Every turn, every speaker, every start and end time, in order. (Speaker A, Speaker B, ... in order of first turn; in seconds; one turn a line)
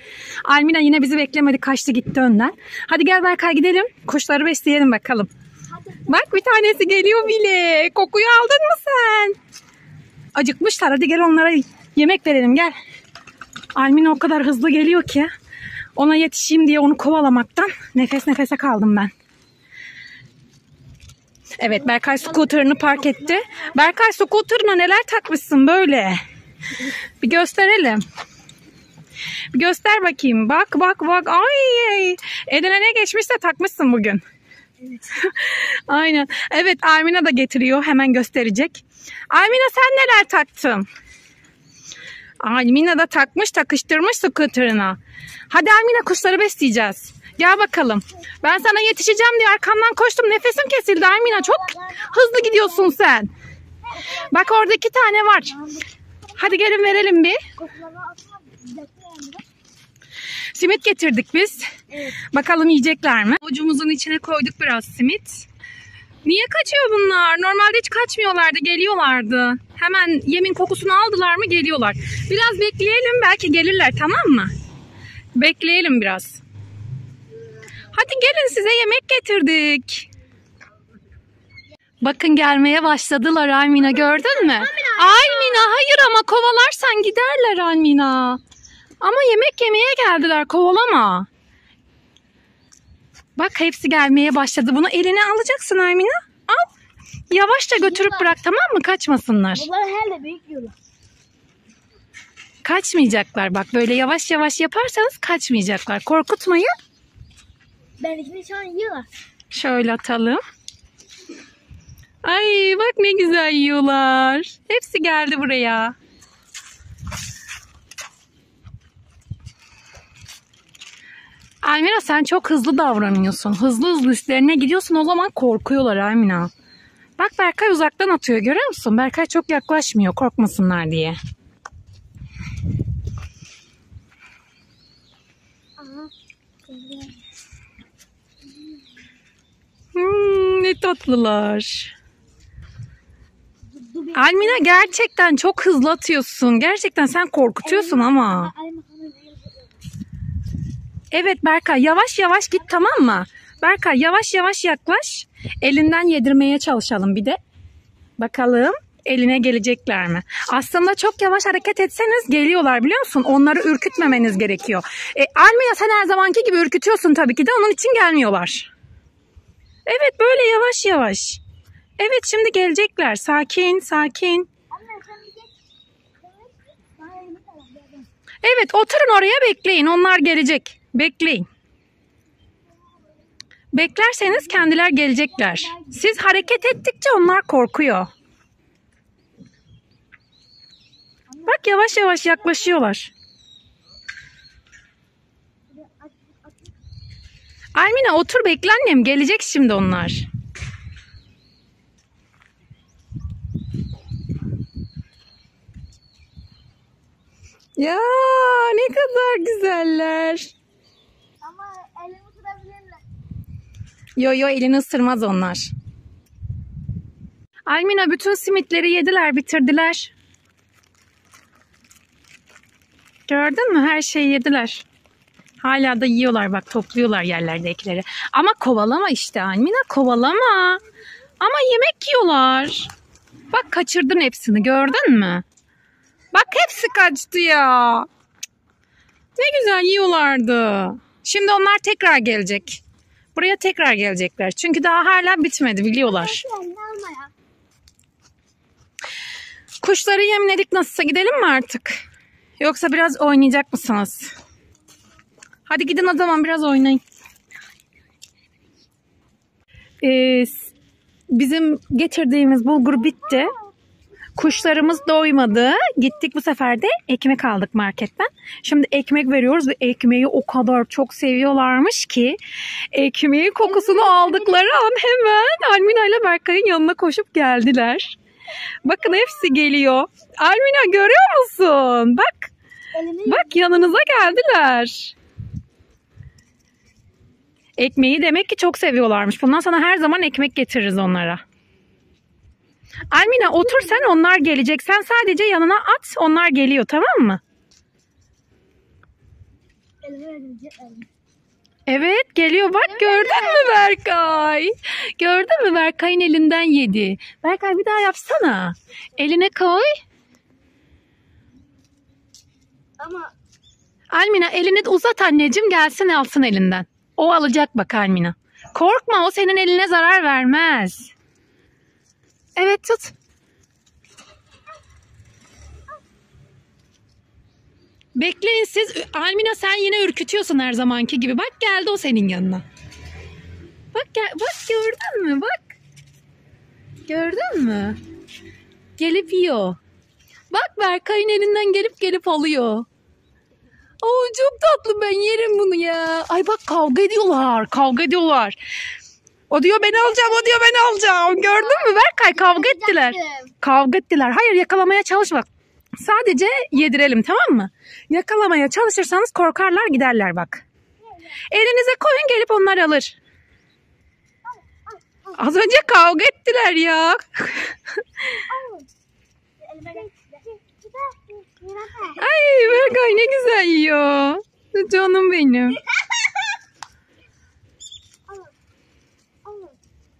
Speaker A: 0.5-5.3
Speaker B: 5.8-7.2
Speaker A: 6.1-9.4
Speaker A: 10.3-12.8
Speaker A: 13.8-15.3
Speaker A: 15.9-19.1
Speaker A: 21.6-26.2
Speaker A: 27.2-28.0
Speaker A: 29.5-34.2
Speaker A: 35.1-40.9
Speaker A: 42.4-45.0
Speaker A: 45.5-53.3
Speaker B: 51.0-52.9
Speaker B: 53.9-54.5
Speaker A: 54.0-55.6
Speaker B: 55.5-55.9
Speaker A: 56.4-57.4
Speaker B: 56.4-57.0
Speaker B: 57.6-59.5
Speaker A: 60.5-65.5
Speaker B: 61.9-62.2
Speaker A: 66.2-74.5
Speaker A: 75.4-76.4
Speaker A: 77.9-80.1
Speaker A: 82.0-88.4
Speaker B: 84.1-85.7
Speaker A: 89.0-91.3
Speaker A: 93.4-96.7
Speaker A: 97.3-99.7
Speaker B: 97.8-98.3
Speaker B: 99.5-100.8
Speaker A: 102.6-106.7
Speaker B: 108.0-109.1
Speaker A: 109.5-110.4
Speaker A: 112.2-116.0
Speaker A: 121.6-126.5
Speaker A: 127.2-131.2
Speaker B: 135.8-136.1
Speaker B: 136.7-137.2
Speaker A: 139.9-141.9
Speaker B: 143.7-144.9
Speaker A: 144.1-148.5
Speaker B: 147.6-149.8
Speaker A: 151.1-157.4
Speaker A: 158.2-168.7
Speaker A: 169.8-171.4
Speaker A: 172.0-174.5
Speaker B: 174.7-175.5
Speaker B: 176.2-178.1
Speaker A: 178.4-181.5
Speaker A: 183.7-188.1
Speaker B: 185.4-186.5
Speaker B: 191.3-192.8
Speaker A: 191.5-193.1
Speaker B: 195.7-196.7
Speaker A: 197.8-200.3
Speaker A: 207.8-210.5
Speaker B: 211.4-213.0
Speaker A: 214.2-215.7
Speaker A: 217.7-220.1
Speaker A: 223.3-224.8
Speaker A: 225.6-230.8
Speaker A: 231.4-232.9
Speaker A: 233.5-235.4
Speaker A: 236.3-238.1
Speaker A: 239.4-242.8
Speaker A: 243.3-246.4
Speaker B: 246.0-247.3
Speaker A: 249.8-252.0
Speaker A: 252.6-254.3
Speaker A: 255.7-257.0
Speaker A: 260.0-260.7
Speaker A: 261.3-263.5
Speaker B: 263.1-263.7
Speaker A: 264.4-272.4
Speaker A: 272.9-278.2
Speaker B: 273.6-274.7
Speaker A: 278.8-282.5
Speaker B: 282.9-284.1
Speaker A: 283.2-285.1
Speaker A: 287.8-291.4
Speaker A: 293.1-297.4
Speaker B: 293.4-294.0
Speaker B: 300.0-301.1
Speaker A: 301.9-309.9
Speaker B: 302.8-303.9
Speaker B: 313.0-313.3
Speaker A: 314.1-321.1
Speaker A: 322.6-323.1
Speaker A: 328.1-332.6
Speaker A: 333.9-335.8
Speaker A: 337.1-338.0
Speaker A: 339.0-339.8
Speaker A: 340.5-342.9
Speaker A: 344.0-348.6
Speaker A: 349.5-355.5
Speaker B: 349.9-353.5
Speaker A: 356.0-360.6
Speaker A: 361.5-363.2
Speaker B: 364.9-365.7
Speaker A: 365.3-368.4
Speaker B: 368.5-368.9
Speaker B: 369.6-373.3
Speaker A: 372.1-375.8
Speaker B: 379.4-379.8